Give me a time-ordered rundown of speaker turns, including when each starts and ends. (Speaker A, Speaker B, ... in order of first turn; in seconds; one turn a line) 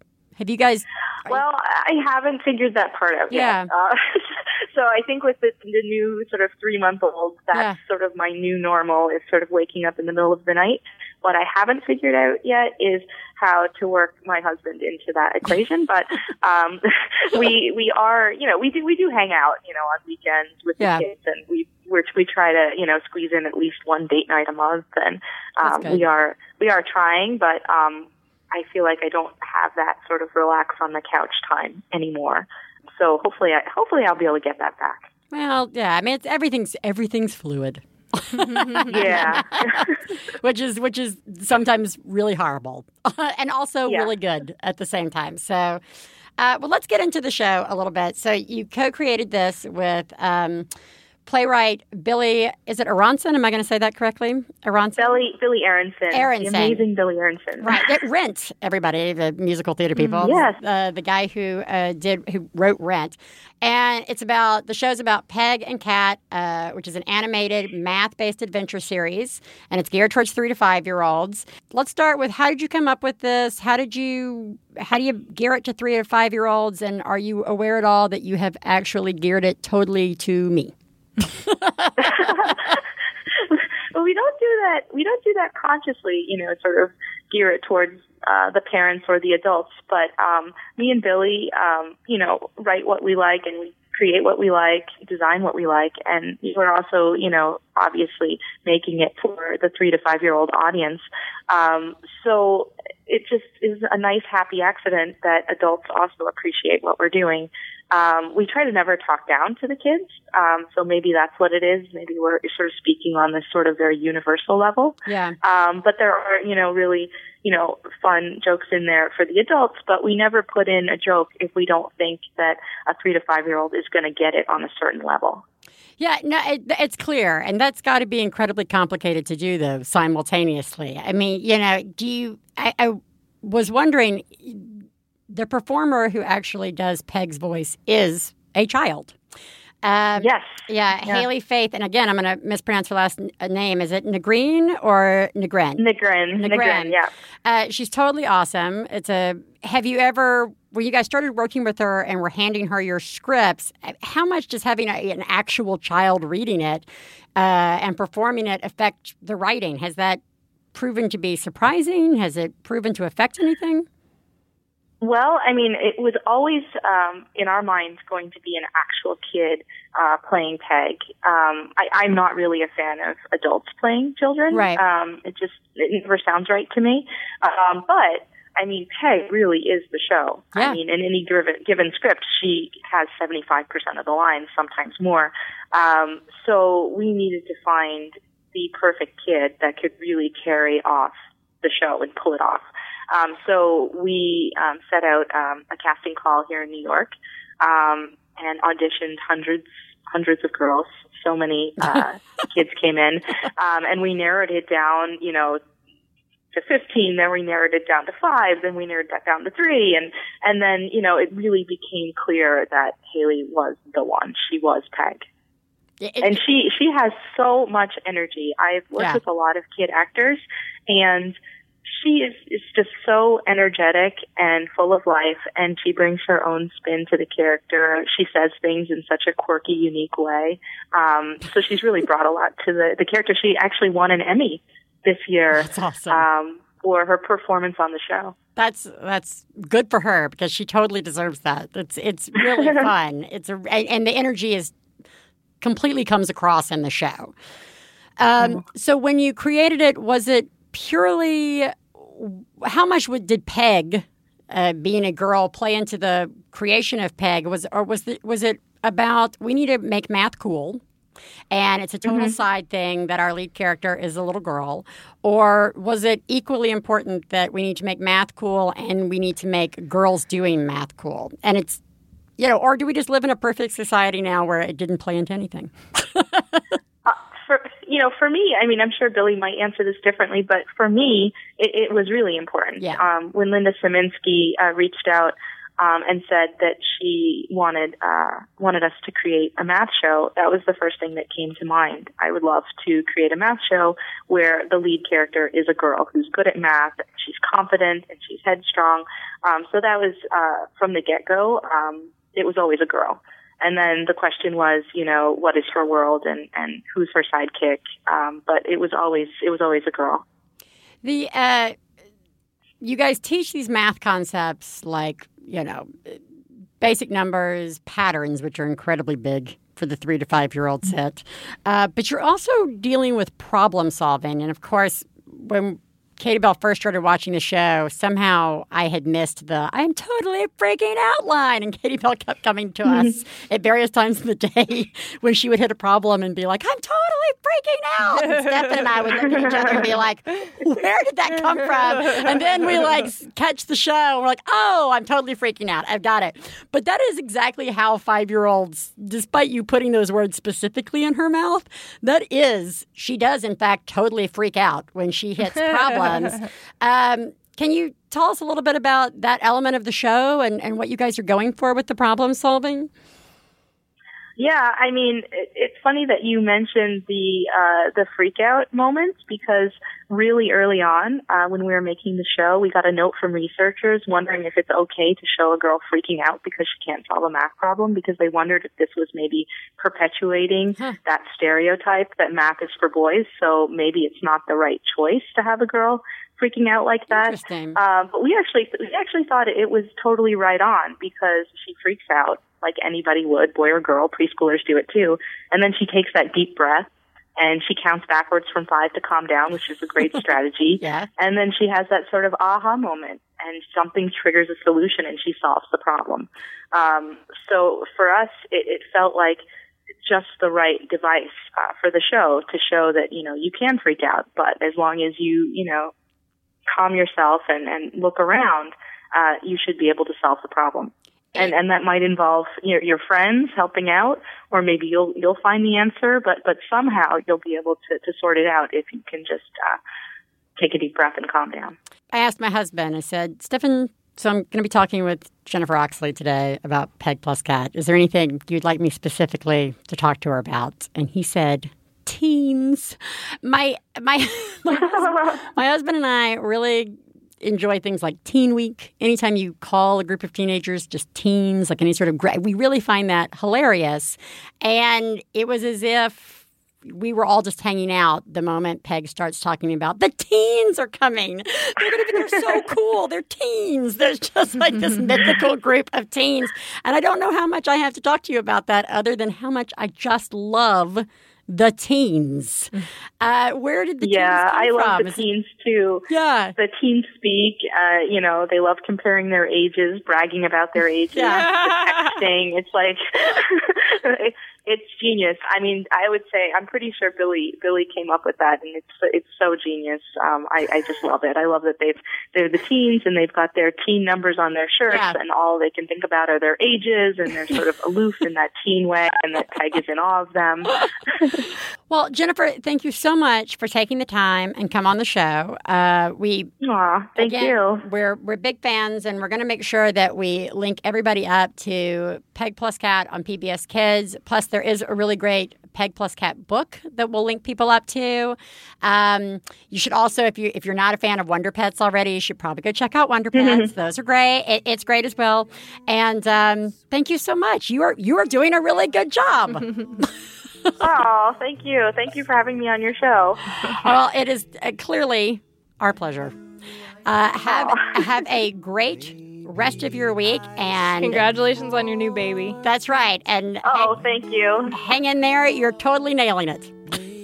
Speaker A: 0.4-1.4
Speaker B: 1.3-35.1
Speaker A: 3.3-3.7
Speaker A: 7.5-7.8
Speaker A: 20.8-21.0
Speaker A: 25.6-26.0
Speaker A: 35.3-45.8
Speaker B: 38.9-40.0
Speaker A: 46.4-50.7
Speaker A: 51.2-55.2
Speaker B: 55.0-57.9
Speaker A: 56.1-56.8
Speaker A: 57.6-80.7
Speaker C: 60.0-60.4
Speaker B: 60.2-60.6
Speaker A: 81.3-82.3
Speaker B: 82.0-82.7
Speaker B: 83.4-125.4
Speaker A: 115.0-115.3
Speaker A: 126.0-139.1
Speaker A: 139.8-145.8
Speaker B: 140.2-141.2
Speaker B: 145.8-147.1
Speaker A: 146.4-160.2
Speaker A: 160.7-163.8
Speaker B: 165.0-205.6
Speaker A: 174.5-174.8
Speaker A: 180.5-180.8
Speaker B: 206.5-215.2
Speaker A: 216.0-216.4
Speaker B: 216.2-238.3
Speaker A: 235.5-236.2
Speaker A: 238.6-244.7
Speaker A: 245.6-247.3
Speaker A: 248.2-260.8
Speaker A: 261.5-271.8
Speaker B: 262.1-262.4
Speaker A: 272.4-276.6
Speaker B: 277.1-310.2
Speaker A: 311.0-311.8
Speaker A: 312.8-316.2
Speaker A: 316.8-362.9
Speaker B: 364.4-409.4
Speaker A: 387.1-387.8
Speaker A: 400.8-401.1
Speaker B: 410.0-415.9
Speaker B: 416.7-429.8
Speaker B: 430.6-431.7
Speaker A: 432.1-475.2
Speaker B: 444.9-445.4
Speaker B: 474.0-501.4
Speaker A: 476.1-476.5
Speaker A: 481.1-481.6
Speaker C: 481.3-481.8
Speaker A: 494.9-495.2
Speaker A: 501.9-506.5
Speaker B: 506.6-507.8
Speaker A: 507.2-530.1
Speaker B: 523.3-523.6
Speaker B: 530.8-533.8
Speaker A: 533.8-536.3
Speaker A: 537.0-541.2
Speaker B: 537.5-537.9
Speaker C: 541.0-542.6
Speaker A: 542.6-543.9
Speaker B: 543.6-544.8
Speaker A: 544.7-546.8